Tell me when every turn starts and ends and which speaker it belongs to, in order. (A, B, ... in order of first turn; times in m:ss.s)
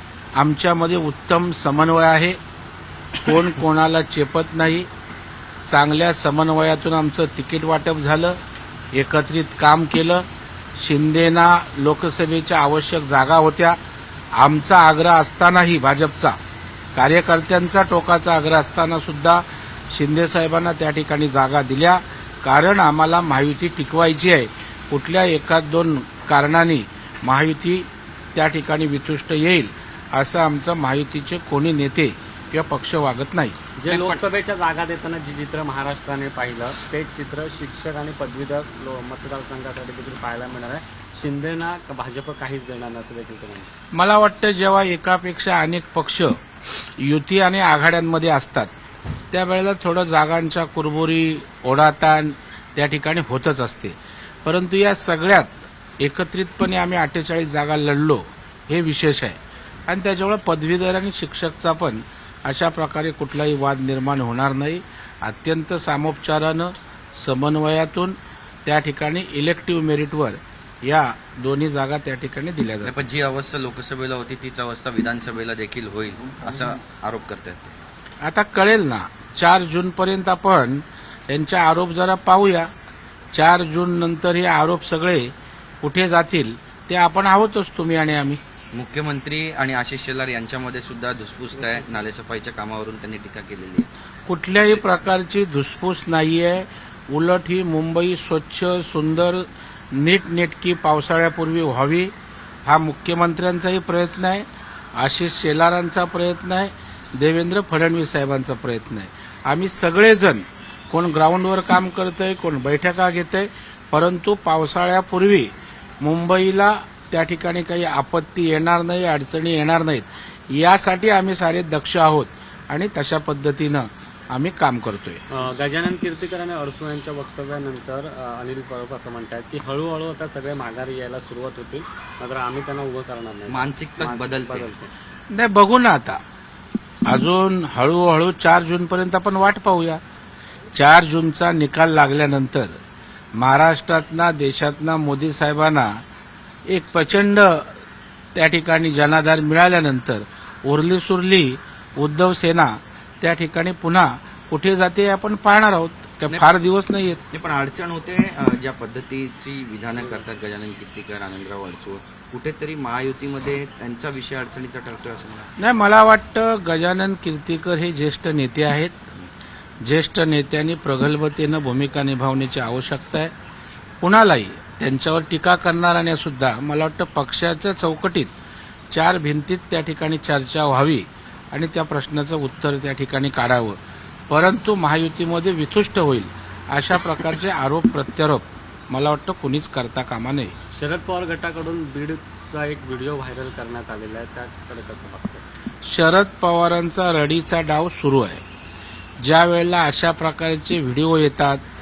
0:00.4-0:02.4 A
0:03.2-0:04.9 A
0:05.7-0:08.4 A
0:08.9-0:10.2 A
0:10.8-0:13.8 A
0:14.4-0:16.4 A
0:16.9-0:33.6 A
0:33.8-0:43.7 B
0:33.9-0:34.2 C
0:43.9-0:46.3 A
0:47.0-0:48.7 A
0:49.3-0:59.4 A
0:59.9-1:13.0 A
1:12.8-1:17.7 C
1:18.2-1:22.7 A
1:23.3-1:25.3 A
1:25.8-1:28.4 A
1:28.7-1:33.9 C
1:34.3-1:42.1 A
1:42.6-1:44.4 A
1:45.0-1:55.5 A
1:56.0-2:05.2 A
2:05.3-2:14.9 B
2:13.5-2:14.7 C
2:15.3-2:16.2 A
2:17.1-2:20.0 A
2:20.7-2:22.8 A
2:23.4-2:25.9 A
2:26.7-2:27.7 A
2:28.3-2:37.2 A
2:37.3-2:45.5 C
2:45.6-2:49.1 A
2:49.8-2:53.3 A
2:54.0-2:58.3 A
2:58.9-3:03.8 A
3:04.3-3:10.5 A
3:10.7-3:15.4 B
3:15.8-3:18.4 A
3:19.2-3:21.6 A